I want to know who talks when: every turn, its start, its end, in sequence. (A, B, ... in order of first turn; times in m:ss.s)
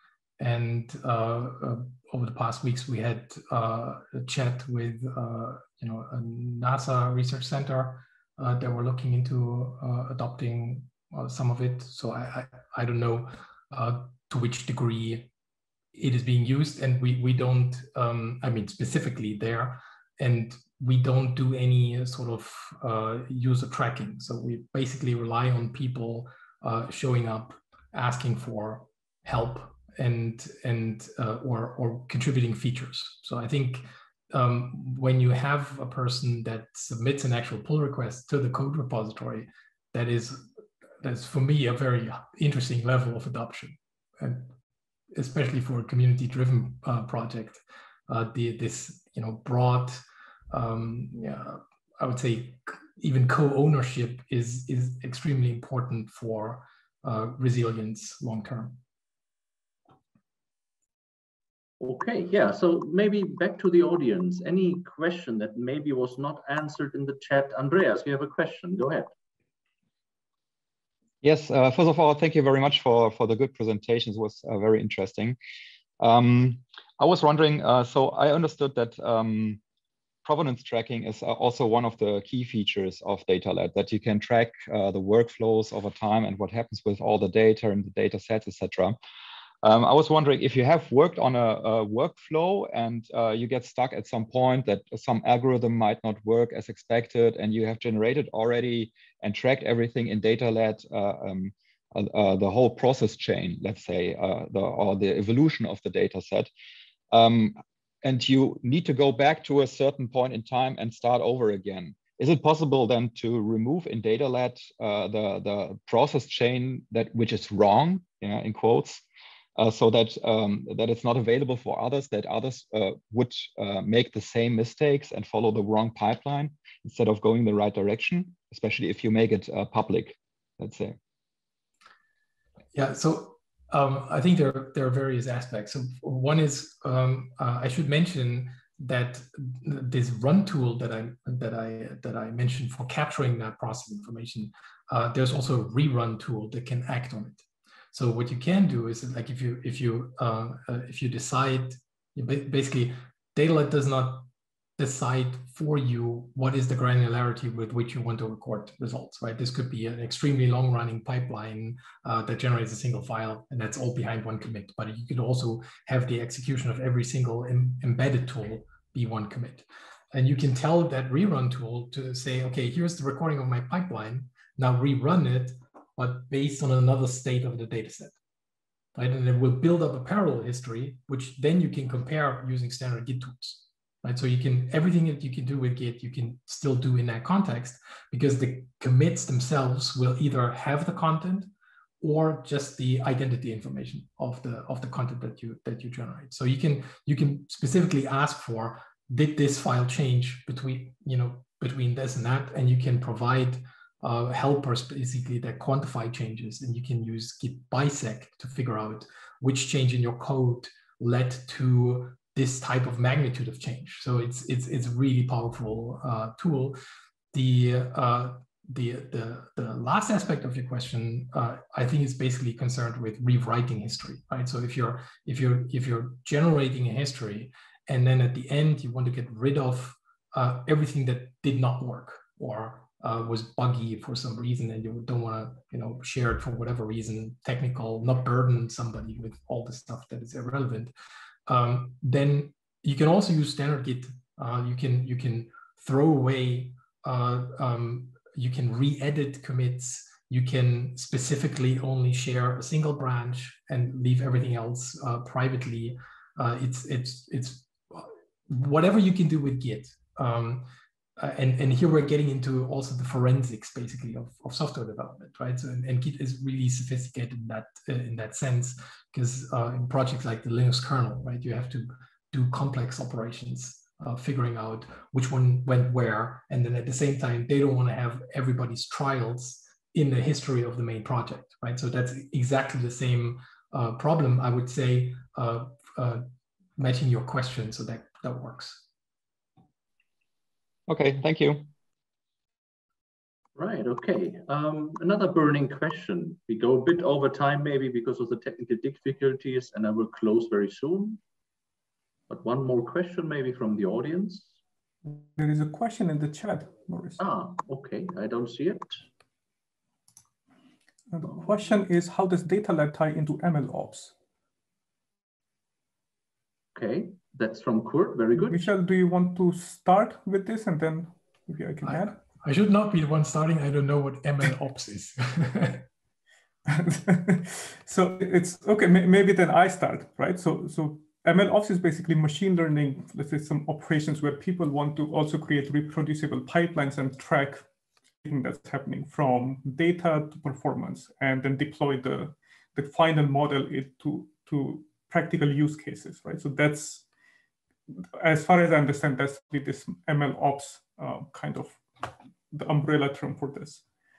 0:00.4-0:15.3 A
0:15.9-0:40.5 A
0:41.0-0:44.5 A
0:45.1-0:58.8 A
1:01.8-1:09.1 B
1:11.2-1:15.4 C
1:16.0-1:19.6 C
1:20.2-1:29.0 C
1:29.6-1:46.5 C
1:47.1-1:59.0 C
1:59.6-2:11.0 C
2:12.7-2:34.2 A
2:34.8-2:58.1 A
2:59.0-3:11.5 A
3:12.0-3:36.8 A
3:37.3-4:00.9 A
4:01.5-4:46.2 A
4:46.8-4:48.8 A
4:50.9-4:51.7 C
4:53.6-5:01.2 B
5:02.3-5:04.5 B
5:05.0-5:07.2 D
5:07.2-5:09.0 B
5:11.1-5:14.1 D
5:16.7-5:18.7 B
5:18.4-5:22.2 D
5:21.8-5:25.8 A
5:26.6-5:37.6 D
5:38.2-5:47.0 D
5:48.2-5:53.8 D